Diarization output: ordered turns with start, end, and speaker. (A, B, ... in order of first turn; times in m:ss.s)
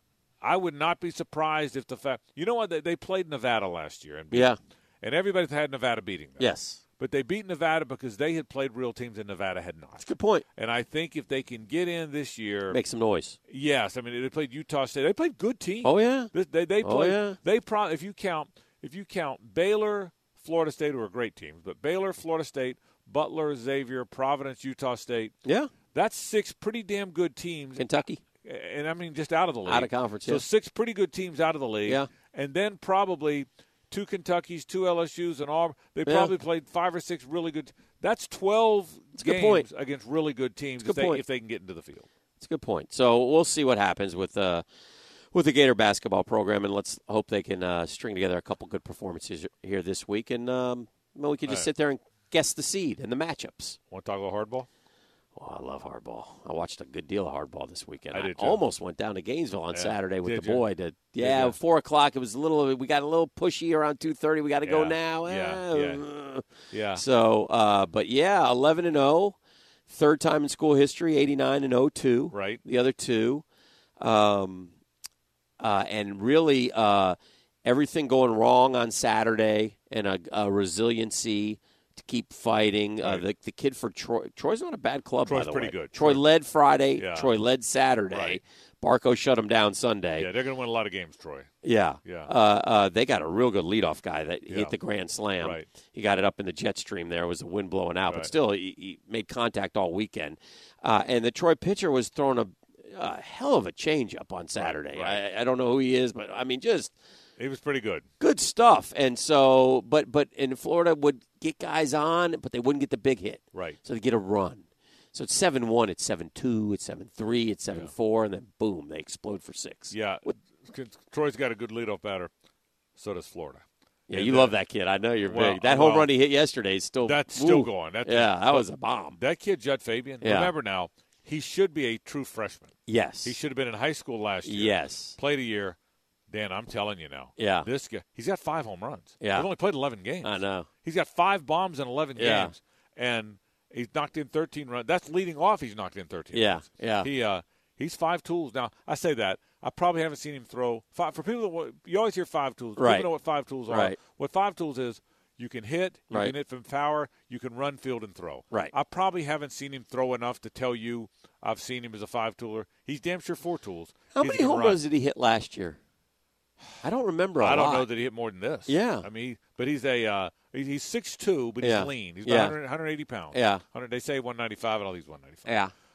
0:00.4-0:12.8 A
0:04.3-0:04.6 B
0:06.4-0:06.8 B
0:10.0-0:10.4 B
0:12.7-0:13.4 B
0:13.5-0:25.4 A
0:15.8-0:17.4 B
0:25.4-0:25.7 B
0:25.9-0:27.9 A
0:27.8-0:28.2 B
0:28.4-0:42.1 A
0:29.7-0:30.4 B
0:36.1-0:36.3 B
0:39.2-0:39.7 B
0:40.8-0:41.2 B
0:42.4-0:44.6 B
0:45.3-0:53.8 B
0:53.9-0:54.7 A
0:55.4-1:06.4 B
0:58.1-0:58.6 A
0:59.7-1:00.6 A
1:01.2-1:01.6 A
1:04.6-1:06.0 A
1:06.7-1:07.0 A
1:07.0-1:09.4 B
1:09.9-1:13.4 B
1:12.3-1:12.6 A
1:14.0-1:14.7 B
1:15.6-1:30.3 B
1:25.2-1:26.2 A
1:27.0-1:27.3 A
1:28.1-1:28.4 A
1:30.2-1:31.5 A
1:31.6-1:46.9 B
1:32.0-1:32.3 A
1:34.5-1:34.7 A
1:35.4-1:35.7 A
1:38.1-1:38.3 A
1:44.6-1:45.2 A
1:47.4-1:48.1 A
1:48.2-2:00.3 B
1:59.9-2:02.3 A
2:03.0-2:04.6 A
2:04.1-2:09.2 B
2:05.2-2:06.1 A
2:07.0-2:15.8 A
2:10.2-2:10.5 B
2:12.9-2:13.4 B
2:14.4-2:15.2 B
2:16.3-2:44.8 A
2:17.4-2:17.7 B
2:19.2-2:19.5 B
2:20.2-2:20.7 B
2:22.2-2:22.5 B
2:26.3-2:27.1 B
2:32.8-2:33.1 B
2:33.7-2:34.0 B
2:44.2-2:45.8 B
2:46.8-2:47.9 B
2:47.4-2:55.5 A
2:48.7-2:49.1 B
2:51.6-2:52.6 B
2:53.3-2:53.6 B
2:55.5-2:55.7 B